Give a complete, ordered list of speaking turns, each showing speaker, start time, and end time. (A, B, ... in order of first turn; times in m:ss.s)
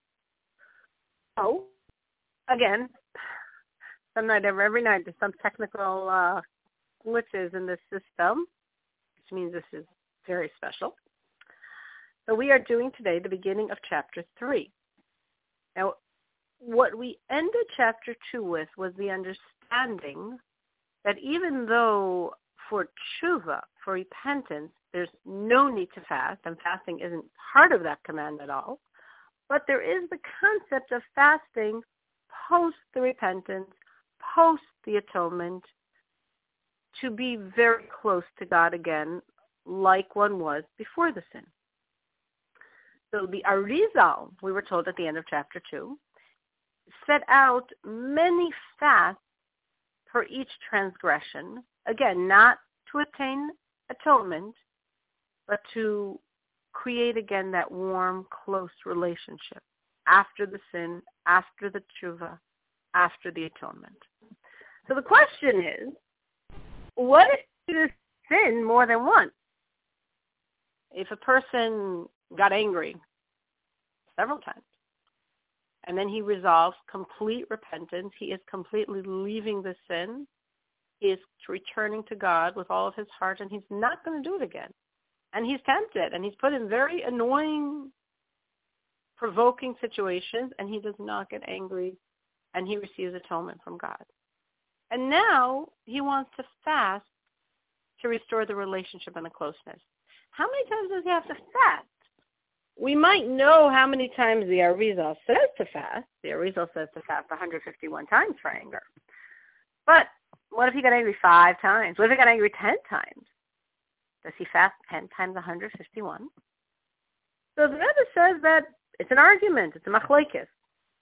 0:01.4-0:01.7 A
0:02.5-0:02.9 A
0:04.1-0:06.4 A
0:07.0-0:08.5 A
0:09.2-0:11.0 A
0:12.3-0:14.7 A
0:16.6-0:20.4 A
0:21.0-0:28.8 A
0:29.5-0:35.7 A
0:36.9-0:41.5 A
0:43.1-0:46.0 A
0:47.0-0:49.2 A
0:50.1-0:54.6 A
0:55.5-0:56.2 A
0:56.7-1:02.4 A
1:02.9-1:04.0 A
1:04.9-1:05.9 A
1:07.0-1:09.3 A
1:10.9-1:13.0 A
1:14.2-1:14.6 A
1:15.8-1:20.3 A
1:21.0-1:24.7 A
1:25.3-1:27.9 A
1:29.2-1:32.0 A
1:32.5-1:34.1 A
1:34.9-1:37.1 A
1:38.0-1:41.9 A
1:42.8-1:48.8 A
1:49.9-1:53.3 A
1:54.2-1:56.3 A
1:57.6-2:00.5 A